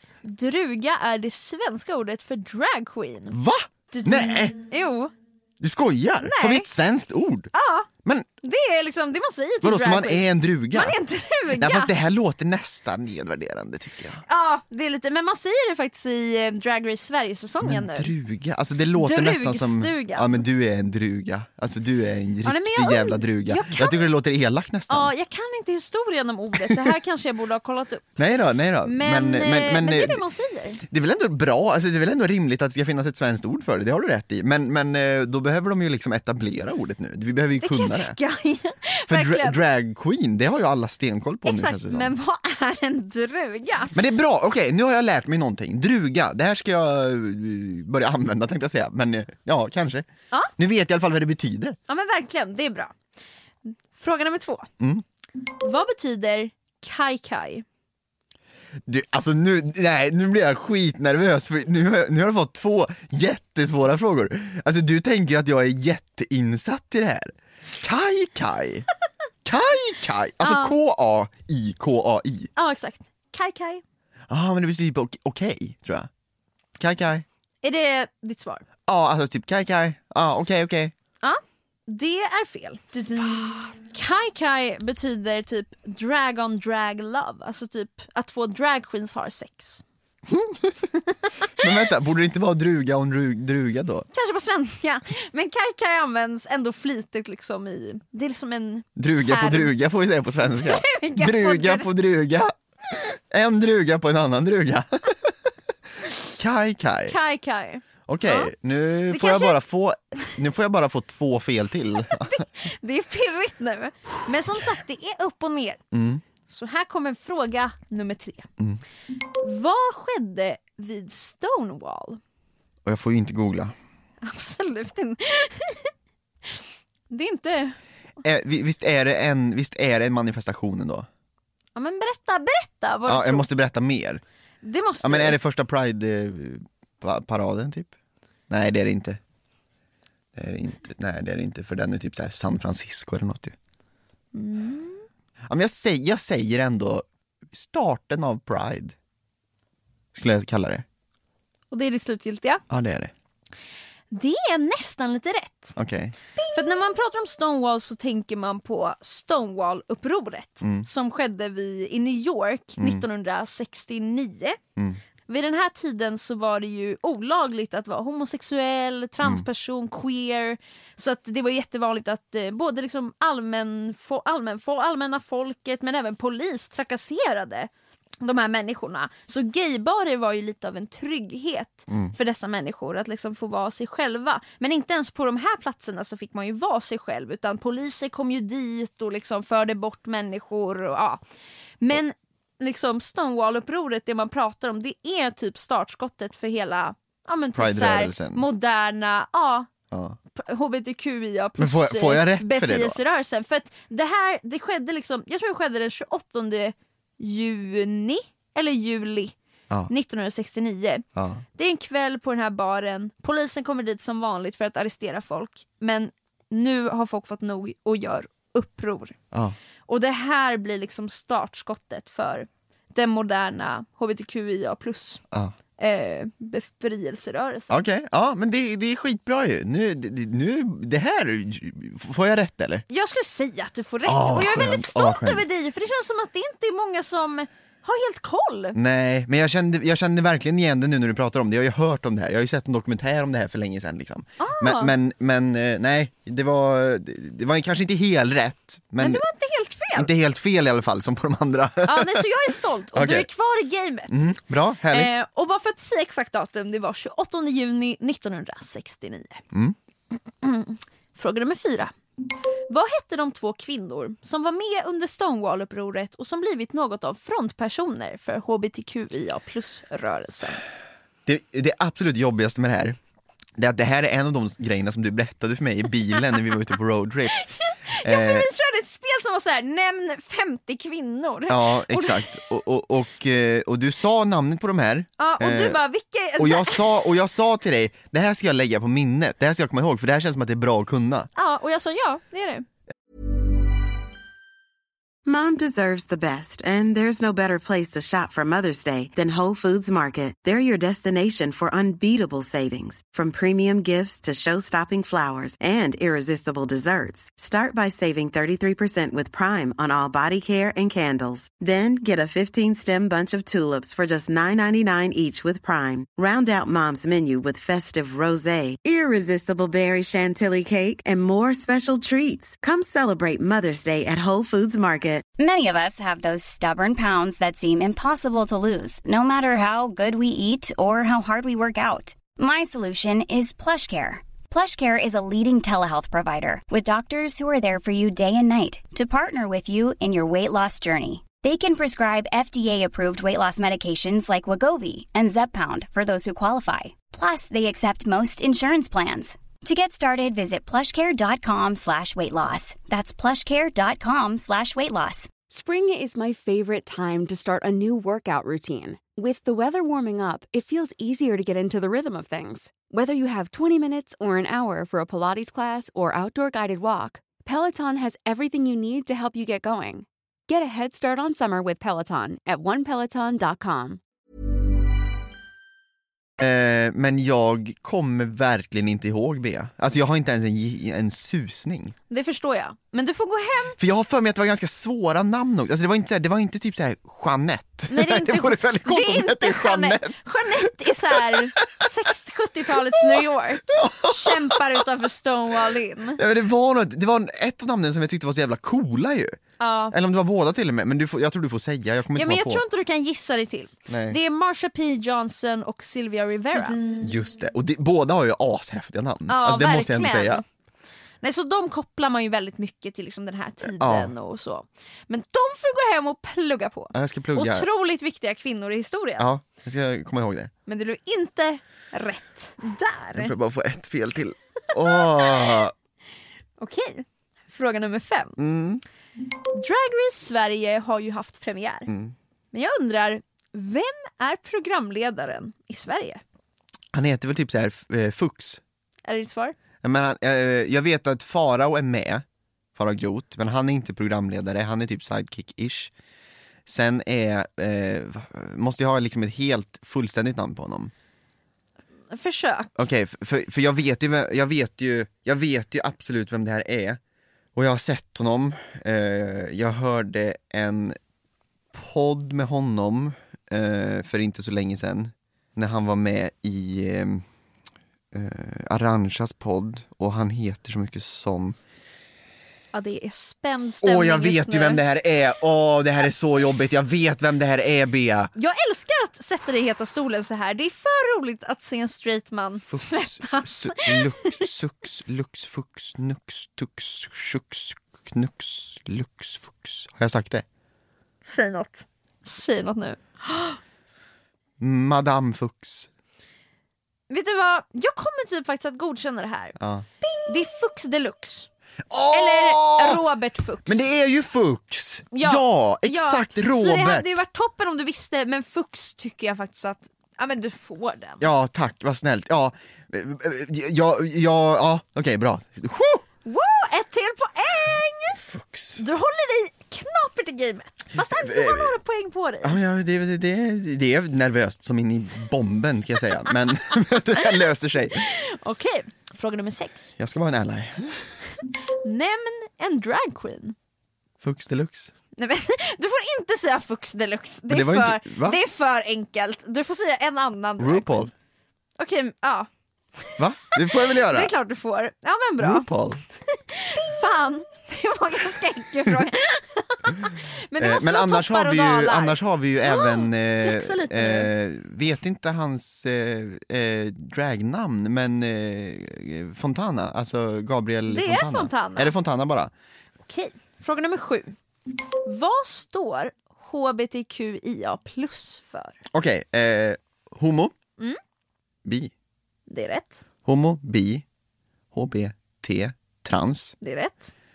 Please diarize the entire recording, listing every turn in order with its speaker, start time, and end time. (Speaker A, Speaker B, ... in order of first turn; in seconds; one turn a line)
Speaker A: 0.2-3.4
Speaker B: 3.3-4.5
Speaker A: 3.9-5.1
Speaker B: 5.6-7.5
Speaker A: 6.2-6.7
Speaker A: 7.5-7.9
Speaker A: 8.4-11.9
Speaker B: 9.6-11.0
Speaker B: 11.5-14.2
Speaker A: 14.2-18.1
Speaker B: 17.6-25.1
Speaker A: 18.9-20.4
Speaker A: 22.4-24.1
Speaker A: 24.9-28.1
Speaker B: 28.2-30.2
Speaker A: 28.8-30.8
Speaker B: 30.8-38.2
Speaker A: 37.6-39.6
Speaker B: 39.1-42.1
Speaker A: 41.4-43.9
Speaker B: 43.9-51.8
Speaker A: 51.9-52.9
Speaker A: 53.6-54.7
Speaker A: 55.6-57.6
Speaker B: 58.9-68.9
Speaker B: 69.4-72.5
Speaker A: 70.4-70.8
Speaker A: 72.5-73.8
Speaker B: 74.3-76.1
Speaker B: 76.8-77.2
Speaker A: 77.6-78.6
Speaker B: 78.9-80.9
Speaker A: 81.2-89.8
Speaker B: 90.3-90.9
Speaker A: 91.3-91.7
Speaker B: 91.6-94.1
Speaker A: 94.1-99.7
Speaker B: 99.0-102.5
Speaker A: 100.4-101.9
Speaker B: 103.2-105.3
Speaker B: 106.4-107.1
Speaker A: 107.1-108.5
Speaker B: 108.1-112.4
Speaker A: 109.1-109.6
Speaker A: 112.1-115.8
Speaker B: 115.9-116.2
Speaker A: 116.5-118.5
Speaker A: 119.4-122.2
Speaker B: 122.8-123.7
Speaker A: 124.2-125.9
Speaker A: 126.5-127.8
Speaker B: 128.2-131.1
Speaker A: 131.7-133.5
Speaker B: 133.1-134.2
Speaker A: 134.6-135.4
Speaker B: 135.0-137.9
Speaker B: 138.5-139.2
Speaker B: 140.3-143.5
Speaker A: 144.3-145.0
Speaker B: 145.5-148.9
Speaker B: 150.1-150.8
Speaker A: 151.7-152.6
Speaker B: 152.7-153.1
Speaker A: 154.1-155.8
Speaker B: 155.8-156.2
Speaker A: 156.5-164.6
Speaker B: 162.8-163.0
Speaker A: 165.3-177.7
Speaker A: 178.2-191.2
Speaker A: 191.8-199.7
Speaker B: 197.5-198.4
Speaker B: 199.9-200.2
Speaker A: 200.4-209.3
Speaker B: 201.6-203.0
Speaker A: 209.9-211.0
Speaker B: 211.2-211.4
Speaker A: 211.6-219.2
Speaker B: 219.3-219.6
Speaker A: 219.9-225.2
Speaker A: 225.8-227.7
Speaker B: 227.7-232.8
Speaker A: 232.9-238.8
Speaker B: 234.0-235.4
Speaker B: 238.7-249.2
Speaker A: 244.4-244.9
Speaker A: 249.0-250.1
Speaker B: 249.9-253.3
Speaker A: 251.8-254.2
Speaker B: 254.1-255.1
Speaker A: 254.9-259.4
Speaker A: 260.4-261.9
Speaker A: 262.7-270.6
Speaker B: 271.2-273.0
Speaker B: 273.6-277.4
Speaker A: 277.4-282.5
Speaker B: 278.0-278.5
Speaker B: 281.5-285.8
Speaker A: 285.2-287.1
Speaker B: 286.4-291.3
Speaker A: 291.4-292.6
Speaker C: 295.2-325.3
Speaker D: 325.4-355.3
Speaker E: 355.5-374.0
Speaker B: 376.4-381.9
Speaker A: 382.1-383.8
Speaker B: 383.8-391.5
Speaker A: 387.9-396.2
Speaker B: 393.0-394.9
Speaker B: 396.2-399.4
Speaker A: 399.6-399.9
Speaker B: 399.9-402.6
Speaker A: 402.1-407.1
Speaker B: 403.9-404.2
Speaker B: 406.5-410.4
Speaker A: 409.3-410.4
Speaker A: 411.2-419.3
Speaker B: 413.7-414.1
Speaker B: 416.9-417.7
Speaker B: 419.2-420.5
Speaker A: 420.7-423.3
Speaker B: 423.1-425.7
Speaker A: 425.2-425.5
Speaker A: 426.6-428.4
Speaker B: 428.4-428.8
Speaker A: 429.5-431.9
Speaker B: 431.9-432.1
Speaker A: 432.5-436.2
Speaker B: 436.9-438.6
Speaker A: 439.1-439.5
Speaker B: 439.8-442.2
Speaker B: 442.8-445.9
Speaker B: 446.7-450.9
Speaker A: 452.1-452.7
Speaker B: 452.8-457.0
Speaker B: 457.5-461.0
Speaker B: 461.7-467.2
Speaker B: 468.1-471.6
Speaker A: 472.7-474.8
Speaker B: 473.8-478.3
Speaker A: 478.4-484.5
Speaker B: 482.7-490.4
Speaker A: 491.2-493.6
Speaker B: 494.6-495.9
Speaker A: 497.1-499.6
Speaker B: 499.6-499.9
Speaker A: 500.2-501.5
Speaker B: 501.9-503.0
Speaker A: 502.1-503.8
Speaker B: 503.7-507.1
Speaker A: 505.1-511.2
Speaker B: 511.2-516.0
Speaker A: 516.2-518.2
Speaker B: 518.2-518.8
Speaker A: 518.8-522.6
Speaker B: 521.0-521.8
Speaker B: 522.4-528.1
Speaker A: 527.3-529.9
Speaker B: 530.0-531.1
Speaker A: 531.8-533.5
Speaker B: 534.2-534.9
Speaker A: 535.2-541.1
Speaker B: 537.5-538.4
Speaker B: 540.6-541.1
Speaker A: 541.8-542.5
Speaker A: 543.0-545.6
Speaker B: 543.2-544.3
Speaker B: 545.4-546.0
Speaker A: 546.3-554.3
Speaker B: 550.6-562.5
Speaker A: 560.9-561.9
Speaker A: 563.0-564.3
Speaker A: 565.0-568.8
Speaker B: 568.9-570.5
Speaker B: 571.6-571.9
Speaker A: 572.5-573.0
Speaker B: 573.2-574.0
Speaker B: 574.7-576.5
Speaker A: 576.6-577.1